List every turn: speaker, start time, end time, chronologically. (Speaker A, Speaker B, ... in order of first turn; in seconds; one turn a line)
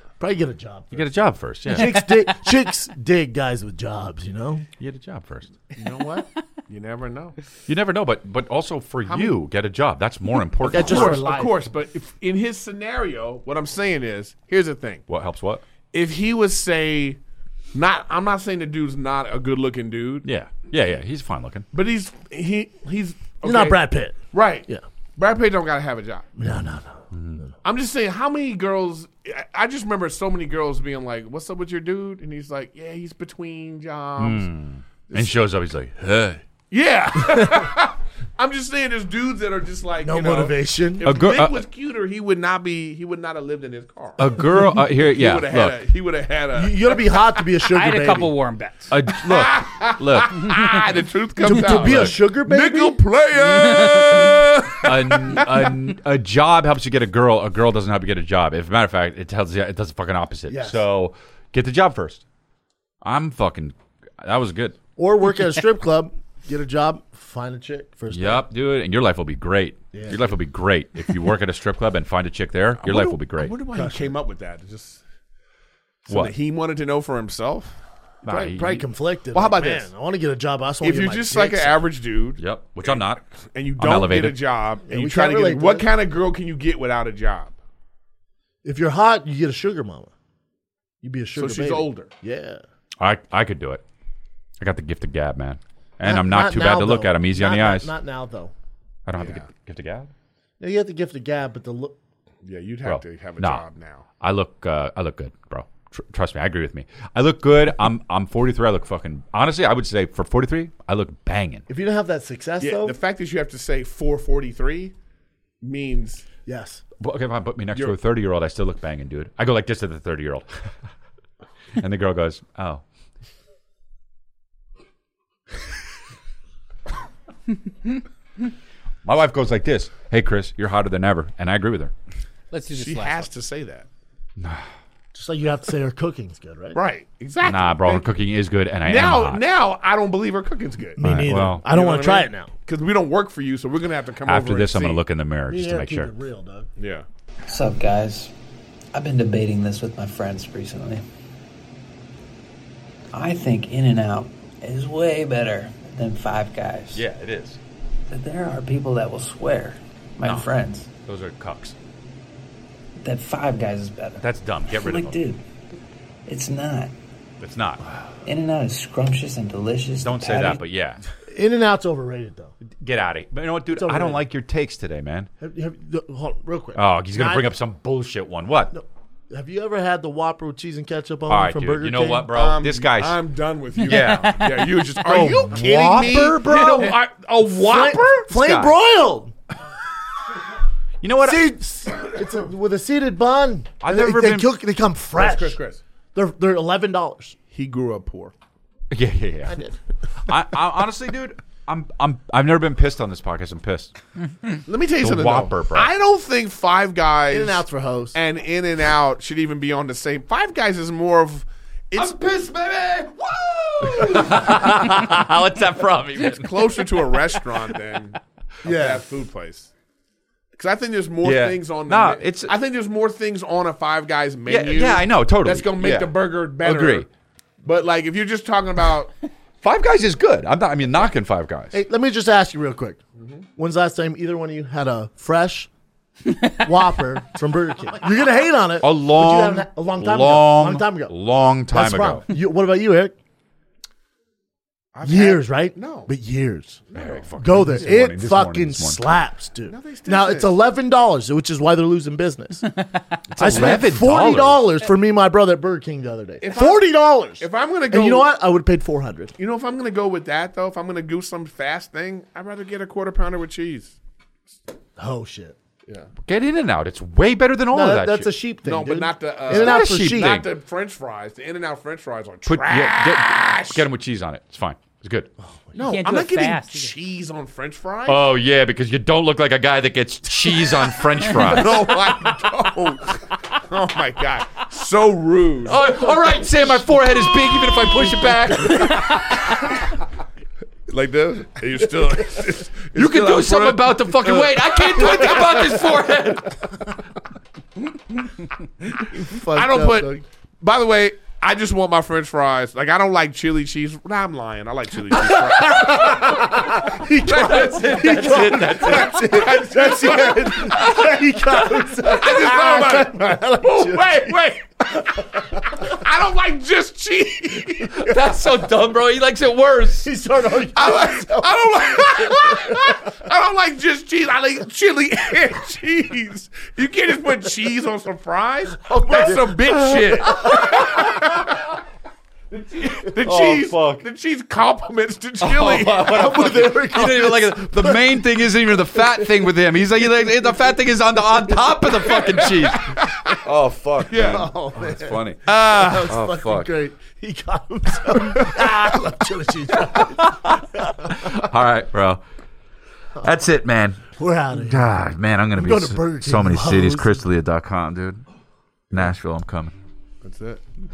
Speaker A: 0.2-1.1
Speaker B: 0.9-1.9
Speaker A: 1.7-4.7
Speaker C: 1.7-2.5
Speaker B: 4.8-5.5
Speaker D: 5.8-7.4
Speaker B: 7.7-11.2
Speaker D: 9.1-9.3
Speaker A: 10.6-11.6
Speaker D: 10.7-15.1
Speaker B: 15.1-15.6
Speaker D: 15.9-17.2
Speaker D: 17.7-20.3
Speaker B: 20.2-21.7
Speaker D: 21.7-26.3
Speaker A: 23.4-24.8
Speaker A: 26.4-27.5
Speaker B: 27.1-27.4
Speaker D: 27.6-34.5
Speaker B: 34.2-36.4
Speaker D: 36.7-44.4
Speaker A: 40.0-41.1
Speaker B: 41.0-41.7
Speaker B: 44.2-45.8
Speaker D: 45.0-47.0
Speaker A: 46.5-48.4
Speaker C: 47.6-48.9
Speaker B: 48.9-50.5
Speaker D: 49.2-55.6
Speaker A: 51.4-53.0
Speaker B: 51.5-52.1
Speaker B: 54.8-62.2
Speaker A: 60.5-60.8
Speaker B: 63.0-64.8
Speaker A: 65.0-68.5
Speaker B: 68.1-73.5
Speaker A: 69.9-70.3
Speaker D: 72.8-75.0
Speaker A: 73.7-74.2
Speaker D: 76.1-77.8
Speaker B: 76.1-76.3
Speaker B: 78.2-78.9
Speaker A: 78.2-81.8
Speaker D: 79.3-79.9
Speaker D: 80.8-87.5
Speaker B: 82.4-83.2
Speaker B: 83.8-84.4
Speaker A: 84.9-85.9
Speaker A: 88.6-90.1
Speaker A: 91.0-92.6
Speaker D: 91.3-92.1
Speaker B: 93.0-93.8
Speaker B: 94.6-97.9
Speaker A: 96.0-98.5
Speaker B: 99.1-100.1
Speaker D: 99.2-99.5
Speaker A: 100.6-102.0
Speaker D: 102.4-104.0
Speaker B: 102.8-103.6
Speaker B: 104.2-111.7
Speaker A: 111.7-113.0
Speaker D: 112.6-114.9
Speaker D: 115.6-116.2
Speaker A: 116.5-116.8
Speaker B: 117.0-120.5
Speaker B: 121.8-122.8
Speaker B: 129.1-131.9
Speaker C: 132.5-133.3
Speaker D: 132.7-133.9
Speaker B: 134.4-134.7
Speaker A: 135.1-136.8
Speaker D: 136.7-138.1
Speaker B: 137.4-139.4
Speaker D: 138.9-141.0
Speaker A: 141.0-142.5
Speaker B: 141.0-141.6
Speaker D: 141.6-145.0
Speaker B: 144.3-146.1
Speaker A: 145.5-146.7
Speaker D: 146.8-147.1
Speaker E: 147.5-148.3
Speaker E: 148.9-151.1
Speaker E: 153.1-157.1
Speaker B: 156.9-157.6
Speaker E: 158.1-160.9
Speaker B: 160.2-160.5
Speaker B: 161.1-161.8
Speaker E: 163.0-165.4
Speaker B: 164.2-165.2
Speaker E: 166.3-166.9
Speaker B: 167.4-167.8
Speaker E: 168.2-170.7
Speaker B: 170.0-171.0
Speaker A: 171.3-172.5
Speaker B: 172.8-175.3
Speaker A: 173.7-174.2
Speaker A: 175.4-177.5
Speaker B: 176.8-178.7
Speaker A: 178.7-182.3
Speaker B: 181.3-183.2
Speaker D: 182.3-188.3
Speaker B: 183.8-184.4
Speaker C: 183.9-184.7
Speaker B: 185.1-186.9
Speaker A: 185.1-186.2
Speaker A: 187.6-189.4
Speaker B: 188.3-188.7
Speaker B: 191.0-191.6
Speaker A: 191.2-195.6
Speaker B: 193.8-194.5
Speaker D: 195.2-195.8
Speaker A: 196.1-197.4
Speaker D: 197.5-198.3
Speaker B: 198.9-199.6
Speaker A: 199.5-199.8
Speaker B: 200.3-203.9
Speaker D: 204.7-212.4
Speaker B: 205.0-205.9
Speaker A: 207.3-208.2
Speaker B: 212.0-216.8
Speaker D: 216.3-219.7
Speaker A: 218.6-219.1
Speaker D: 220.6-227.1
Speaker B: 221.2-222.5
Speaker B: 224.5-227.1
Speaker D: 227.6-229.1
Speaker B: 229.6-231.8
Speaker A: 231.7-233.0
Speaker D: 233.2-233.4
Speaker A: 233.6-235.7
Speaker A: 236.6-243.2
Speaker B: 238.8-242.3
Speaker D: 244.9-246.1
Speaker A: 245.0-246.8
Speaker D: 246.9-247.9
Speaker B: 246.9-249.0
Speaker A: 247.4-252.7
Speaker D: 249.7-250.6
Speaker B: 253.3-254.7
Speaker A: 253.4-259.3
Speaker D: 256.4-258.3
Speaker D: 259.4-264.0
Speaker A: 265.0-265.6
Speaker B: 266.3-268.3
Speaker A: 267.7-270.5
Speaker D: 268.7-273.9
Speaker B: 269.5-270.5
Speaker B: 272.5-275.3
Speaker A: 275.4-275.9
Speaker D: 275.7-278.3
Speaker C: 275.8-276.9
Speaker B: 278.1-281.9
Speaker D: 281.3-286.0
Speaker B: 285.7-289.3
Speaker D: 288.2-289.6
Speaker D: 290.9-295.8
Speaker B: 292.9-296.7
Speaker A: 299.1-300.2
Speaker D: 299.5-306.4
Speaker A: 305.3-314.5
Speaker B: 305.8-306.2
Speaker D: 307.0-311.1
Speaker B: 307.3-309.2
Speaker D: 312.0-315.2
Speaker A: 315.2-315.9
Speaker D: 315.8-317.9
Speaker B: 317.9-320.1
Speaker A: 318.0-318.3
Speaker A: 320.0-323.0
Speaker D: 320.8-331.6
Speaker A: 328.8-330.8
Speaker B: 330.3-331.0
Speaker D: 332.5-336.4
Speaker B: 333.2-334.1
Speaker B: 335.4-345.6
Speaker A: 336.0-338.2
Speaker D: 342.1-343.4
Speaker D: 344.1-344.5
Speaker A: 344.1-351.2
Speaker D: 345.5-346.1
Speaker B: 346.1-346.7
Speaker D: 348.4-348.9
Speaker B: 349.8-352.2
Speaker B: 353.2-358.2
Speaker A: 354.2-354.9
Speaker A: 355.6-357.2
Speaker B: 358.9-359.8
Speaker D: 360.2-360.6